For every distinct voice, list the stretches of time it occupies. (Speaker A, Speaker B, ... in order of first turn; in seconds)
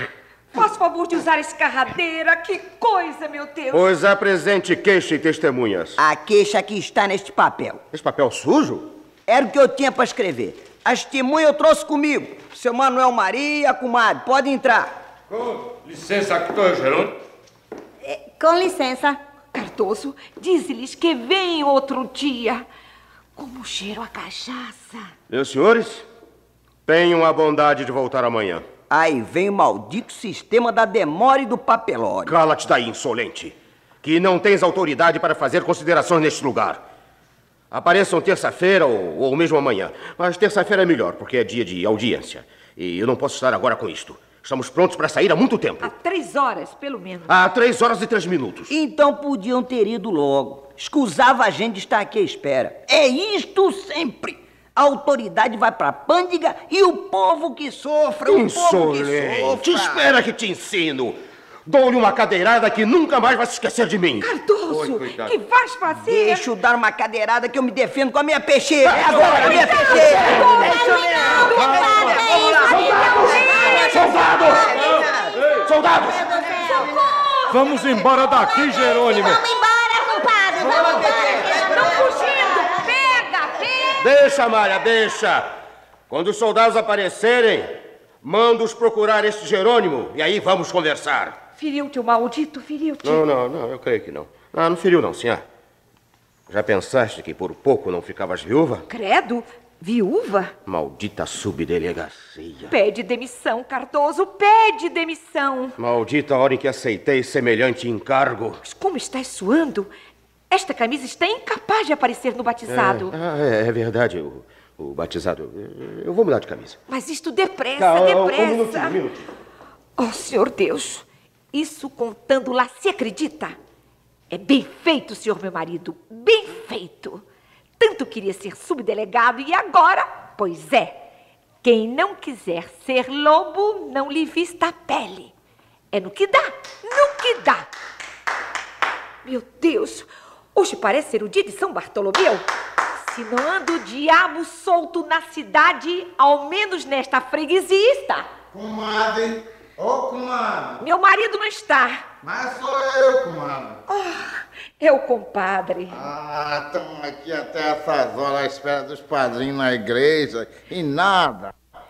Speaker A: 0.5-3.9, 19.5-22.6, 23.4-25.1, 45.8-47.4, 64.2-66.5, 69.5-72.1, 80.6-84.0, 91.6-93.2, 98.9-100.5, 102.7-105.8, 108.6-109.9, 110.5-113.1, 116.9-119.0, 120.0-123.5, 124.3-127.2, 127.8-131.0, 131.6-135.3, 135.9-137.7, 139.2-142.4, 143.0-148.3, 150.8-152.0, 153.9-156.0
Speaker B: 3.7-6.0, 7.9-8.9, 25.3-26.1, 26.9-28.6, 32.2-36.8, 37.7-45.9, 47.3-48.7, 58.2-64.3, 69.5-69.9, 73.1-74.9, 75.6-76.5, 84.0-85.5, 86.1-91.4, 93.0-95.4, 96.5-98.8, 100.7-102.7, 105.8-108.6, 112.7-116.8, 117.8-119.2
Speaker C: 6.0-7.8, 9.3-14.9, 28.9-32.4, 48.7-60.0, 66.0-72.2, 73.2-75.1, 80.7-82.5
Speaker D: 15.3-17.1, 69.0-70.6, 71.2-72.7, 75.4-75.7, 77.5-79.4
Speaker E: 18.0-19.2, 71.3-73.1, 78.5-81.6
Speaker F: 148.5-150.8, 152.2-153.8, 155.9-161.5